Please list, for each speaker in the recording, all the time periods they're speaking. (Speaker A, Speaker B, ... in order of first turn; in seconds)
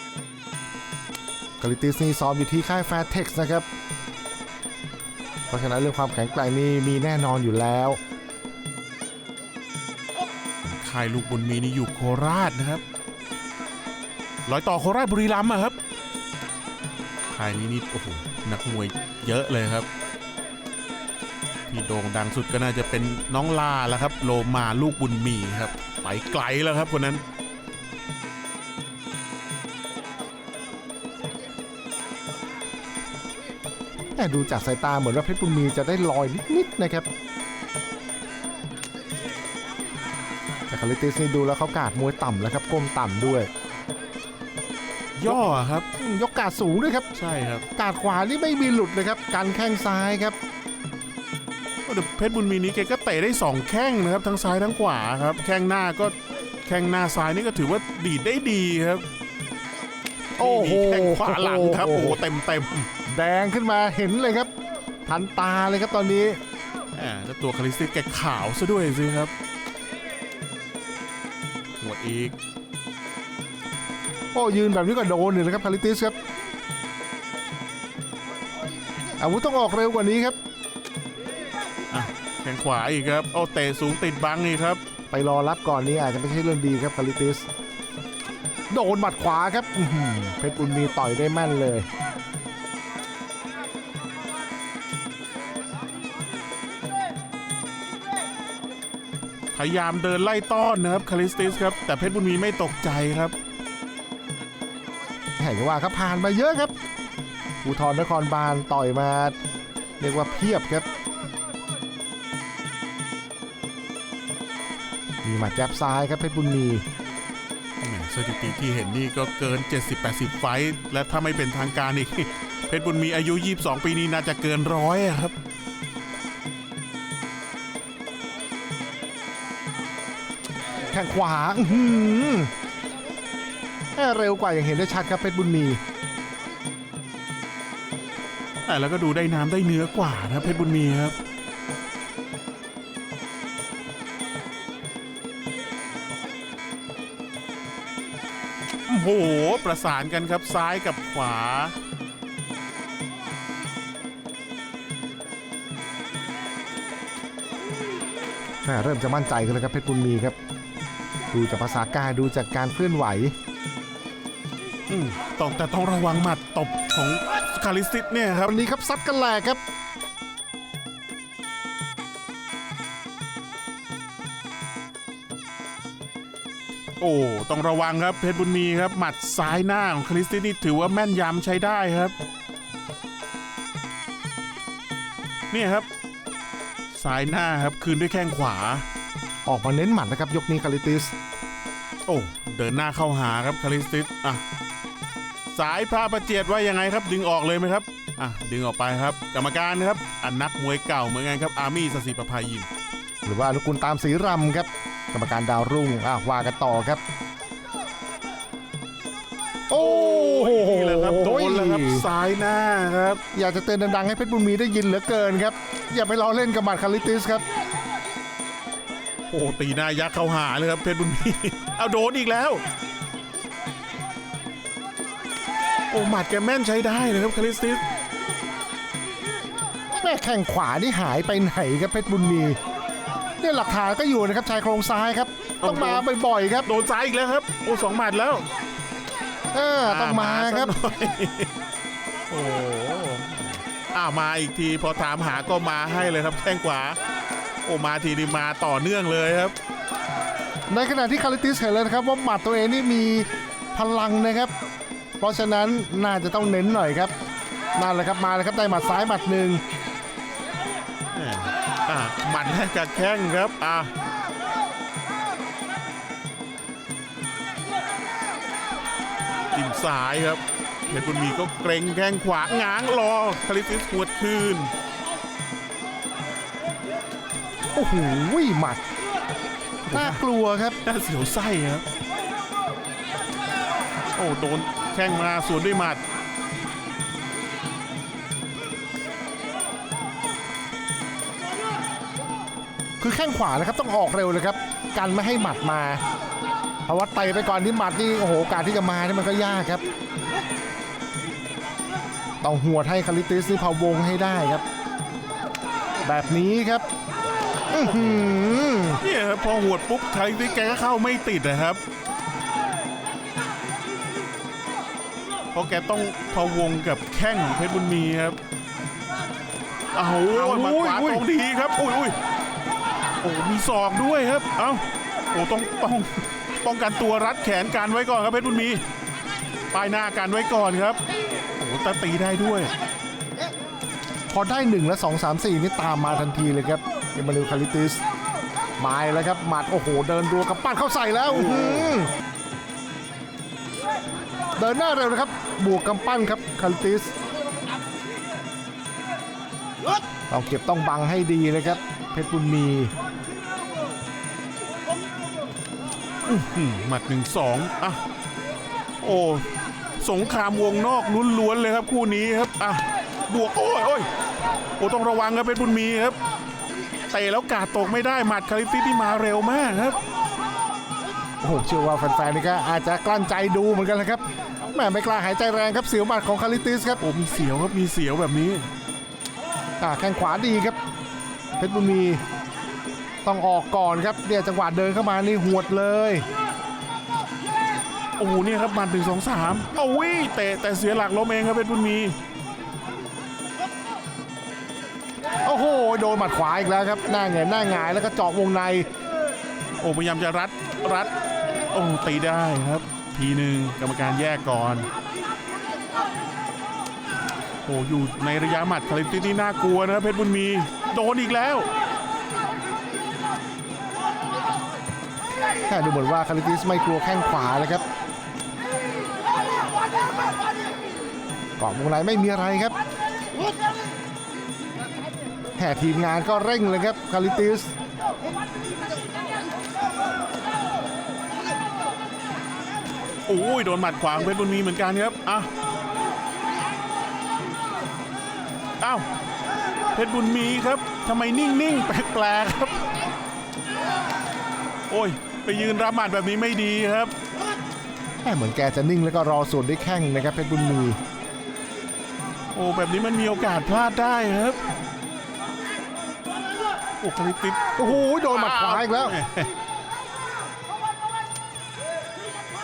Speaker A: 1.6-3.7, 5.5-8.0, 34.1-37.1, 40.7-43.5, 46.0-47.1, 47.8-50.4, 60.4-62.2, 63.0-64.5, 65.1-66.4, 74.3-76.2, 79.2-80.3, 85.1-87.5, 88.7-91.9, 105.4-106.7, 107.6-109.3, 110.0-110.8, 115.2-116.8, 130.9-132.5, 133.9-135.8, 158.6-160.3, 161.3-163.3, 168.4-169.6, 189.4-191.1, 203.2-207.0, 209.7-212.1, 213.3-217.4, 229.9-232.6, 233.4-236.7, 239.5-240.7, 250.7-254.5, 255.2-257.1, 257.8-259.6, 277.7-278.8, 279.9-280.8, 293.0-296.0, 296.9-299.8, 302.4-304.6, 306.0-306.9, 307.7-309.0, 320.3-321.2, 334.3-338.0, 338.8-342.1, 344.6-347.1, 350.3-352.9, 371.4-377.0, 379.8-380.8, 381.6-382.2, 383.2-386.2, 395.4-398.9, 415.7-417.8, 421.6-422.8, 425.6-427.7, 448.2-451.0, 457.8-459.2
Speaker B: 10.6-12.8, 14.4-15.8, 17.3-19.9, 21.7-27.2, 45.2-45.9, 47.1-47.6, 51.9-59.0, 60.4-62.9, 66.9-69.3, 71.8-72.3, 81.9-84.8, 99.5-103.3, 117.8-125.3, 138.6-141.1, 148.9-151.7, 164.9-168.5, 177.0-182.1, 185.5-185.9, 186.9-188.8, 192.1-194.4, 195.5-202.7, 209.7-213.2, 219.3-222.6, 225.9-227.8, 235.6-236.1, 236.6-238.4, 239.8-241.5, 242.3-247.0, 247.6-249.5, 261.1-263.9, 269.5-274.7, 279.9-280.2, 280.8-281.8, 284.1-286.0, 307.8-308.4, 309.0-311.8, 315.5-318.4, 319.9-322.1, 323.2-328.8, 329.7-331.0, 331.6-332.7, 341.3-341.9, 356.2-358.0, 359.0-359.4, 360.0-364.1, 364.8-366.2, 367.1-370.0, 377.0-378.7, 388.2-392.1, 399.8-401.1, 401.7-404.9, 407.6-411.7, 433.3-435.5, 438.8-439.1, 439.9-442.9, 444.9-447.1, 452.5-454.6, 457.0-459.5